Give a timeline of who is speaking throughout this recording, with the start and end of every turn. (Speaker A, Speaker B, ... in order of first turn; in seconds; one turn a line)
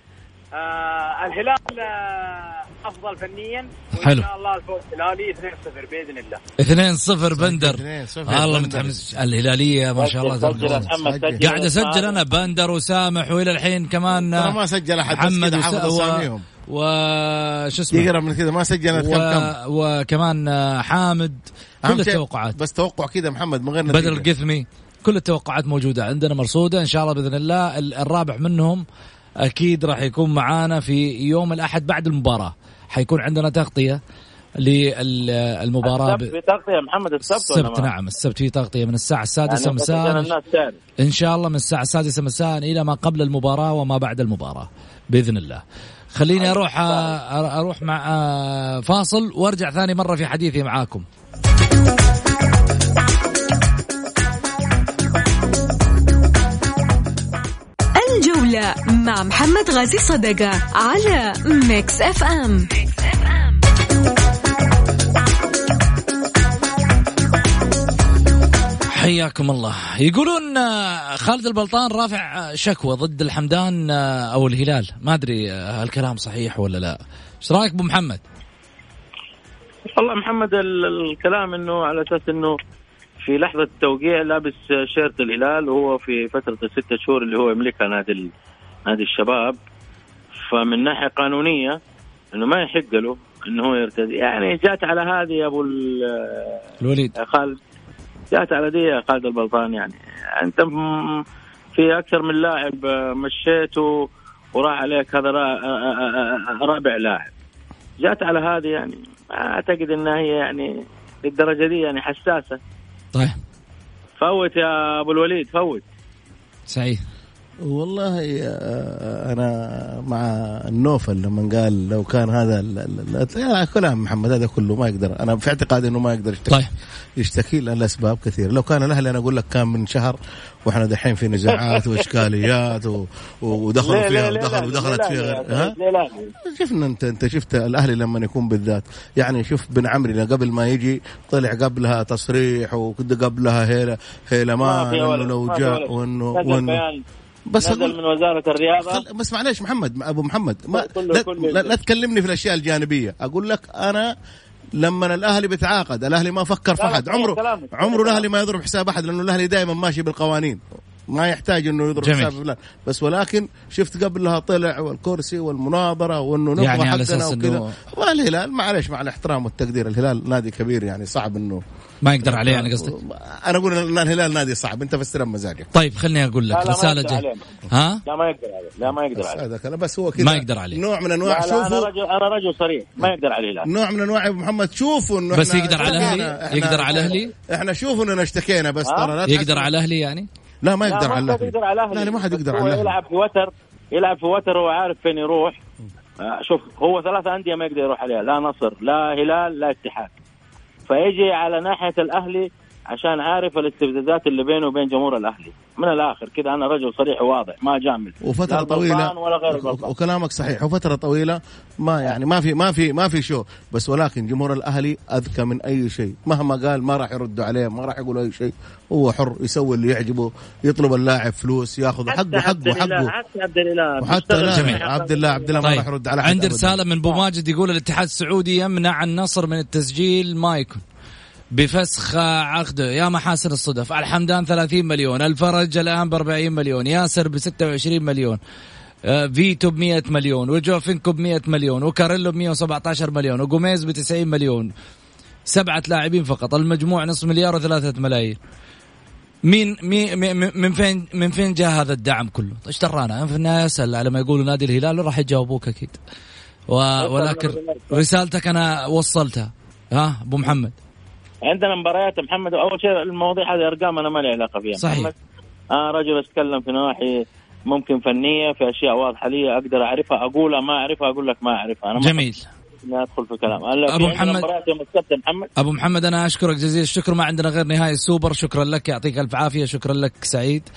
Speaker A: 0.6-1.8
Speaker A: 2.8-6.3
Speaker B: 3.9-4.3
Speaker B: 6.6-14.5
Speaker C: 7.4-9.2
Speaker D: 10.0-12.2
Speaker C: 10.4-11.4
Speaker C: 14.3-16.4
Speaker B: 15.1-18.1
Speaker C: 17.9-19.5
Speaker B: 18.9-22.5
Speaker C: 21.8-24.3
Speaker B: 23.9-28.8
Speaker B: 29.4-34.0
Speaker B: 34.6-36.3
Speaker D: 35.8-37.9
Speaker B: 37.3-40.3
Speaker D: 39.5-40.8
Speaker B: 41.0-45.6
Speaker B: 46.1-51.0
Speaker D: 46.4-47.1
Speaker E: 58.0-63.6
Speaker B: 68.9-78.2
Speaker D: 80.0-82.5
Speaker D: 83.2-88.3
Speaker D: 88.9-89.6
Speaker D: 90.5-91.8
Speaker D: 92.3-96.6
Speaker B: 96.8-97.1
Speaker D: 97.2-97.5
Speaker D: 98.3-101.2
Speaker D: 101.7-103.9
Speaker D: 104.5-107.3
Speaker D: 108.0-110.7
Speaker D: 111.2-112.6
Speaker D: 114.2-115.8
Speaker B: 116.7-117.0
Speaker C: 117.6-126.7
Speaker C: 127.2-135.7
Speaker D: 133.8-136.3
Speaker C: 136.4-146.8
Speaker D: 144.6-147.0
Speaker C: 147.5-148.0
Speaker D: 147.6-149.0
Speaker C: 148.8-154.1
Speaker D: 150.7-151.7
Speaker C: 154.8-160.6
Speaker D: 156.8-158.2
Speaker C: 161.1-171.6
Speaker B: 162.0-162.3
Speaker B: 166.6-167.7
Speaker B: 172.0-172.9
Speaker C: 172.2-175.7
Speaker B: 175.7-178.0
Speaker D: 176.5-177.4
Speaker D: 178.1-179.4
Speaker C: 179.1-181.9
Speaker B: 180.2-180.8
Speaker D: 181.2-183.7
Speaker C: 183.7-189.7
Speaker B: 185.3-187.3
Speaker D: 185.8-186.3
Speaker D: 188.8-189.2
Speaker B: 189.3-190.3
Speaker C: 190.6-192.9
Speaker D: 190.9-195.6
Speaker D: 196.2-200.1
Speaker D: 200.9-209.9
Speaker C: 208.2-223.1
Speaker D: 222.1-225.6
Speaker C: 224.0-226.8
Speaker B: 224.5-224.8
Speaker B: 225.6-230.8
Speaker B: 231.6-238.4
Speaker B: 239.1-244.7
Speaker B: 245.5-248.4
Speaker B: 249.5-256.0
Speaker B: 256.7-260.7
Speaker D: 257.0-258.0
Speaker D: 261.4-265.1
Speaker B: 264.8-265.1
Speaker D: 265.7-272.2
Speaker B: 272.0-272.4
Speaker D: 272.8-275.5
Speaker B: 273.9-274.4
Speaker B: 275.6-280.7